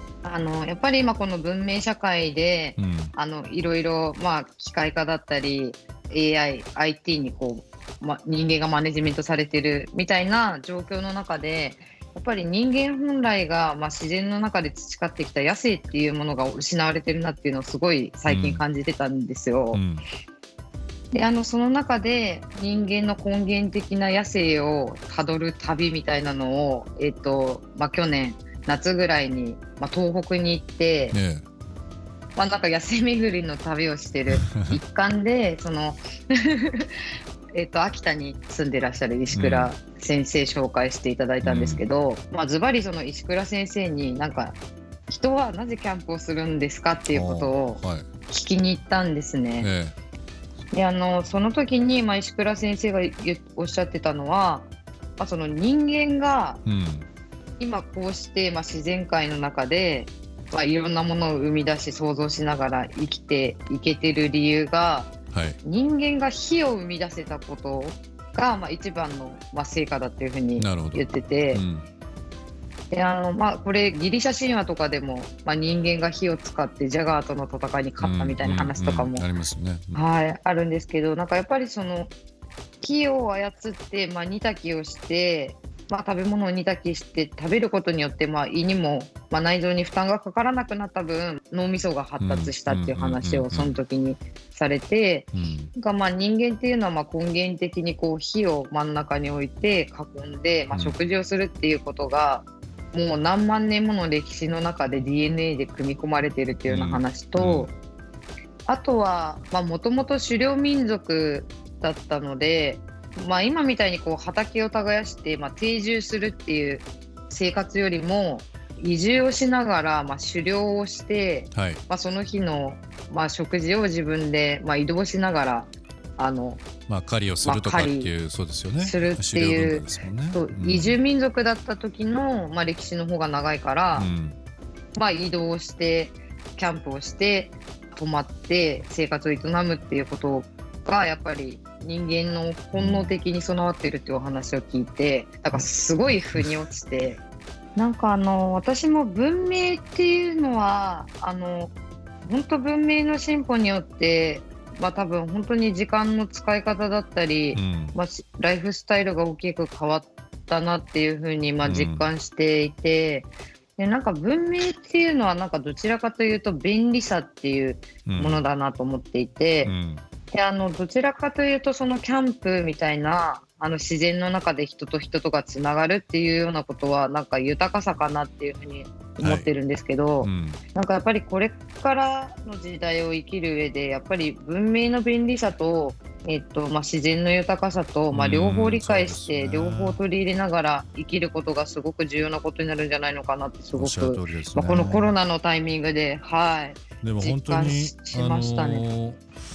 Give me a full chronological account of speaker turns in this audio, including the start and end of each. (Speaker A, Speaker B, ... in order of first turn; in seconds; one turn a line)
Speaker A: 0.2-19.8
Speaker B: 2.8-3.1
Speaker B: 18.3-18.6
Speaker B: 19.7-20.1
Speaker A: 21.1-31.2
Speaker B: 31.1-31.4
Speaker A: 32.4-36.9
Speaker B: 34.3-34.8
Speaker A: 37.5-44.5
Speaker B: 39.3-39.7
Speaker B: 41.4-41.8
Speaker A: 45.1-49.7
Speaker B: 47.1-48.0
Speaker B: 49.6-49.9
Speaker A: 50.7-56.6
Speaker B: 56.6-57.1
Speaker A: 57.6-71.6
Speaker B: 65.3-65.6
Speaker B: 70.6-71.9
Speaker A: 72.9-79.3
Speaker B: 78.0-80.0
Speaker A: 79.9-82.1
Speaker A: 82.8-107.7
Speaker B: 92.2-93.8
Speaker B: 95.3-95.7
Speaker B: 100.7-101.0
Speaker B: 106.7-107.7
Speaker A: 108.7-126.6
Speaker B: 121.5-121.8
Speaker B: 126.9-131.0
Speaker A: 127.4-128.1
Speaker A: 128.8-134.1
Speaker B: 133.9-134.4
Speaker A: 134.9-147.2
Speaker B: 142.7-143.1
Speaker B: 145.5-146.5
Speaker A: 147.8-151.7
Speaker A: 152.2-169.7
Speaker B: 157.5-157.9
Speaker B: 161.6-162.1
Speaker B: 168.1-168.4
Speaker B: 169.6-170.0
Speaker A: 170.3-198.9
Speaker B: 179.2-179.5
Speaker B: 180.2-180.6
Speaker B: 188.1-190.0
Speaker B: 193.7-195.1
Speaker B: 197.0-199.2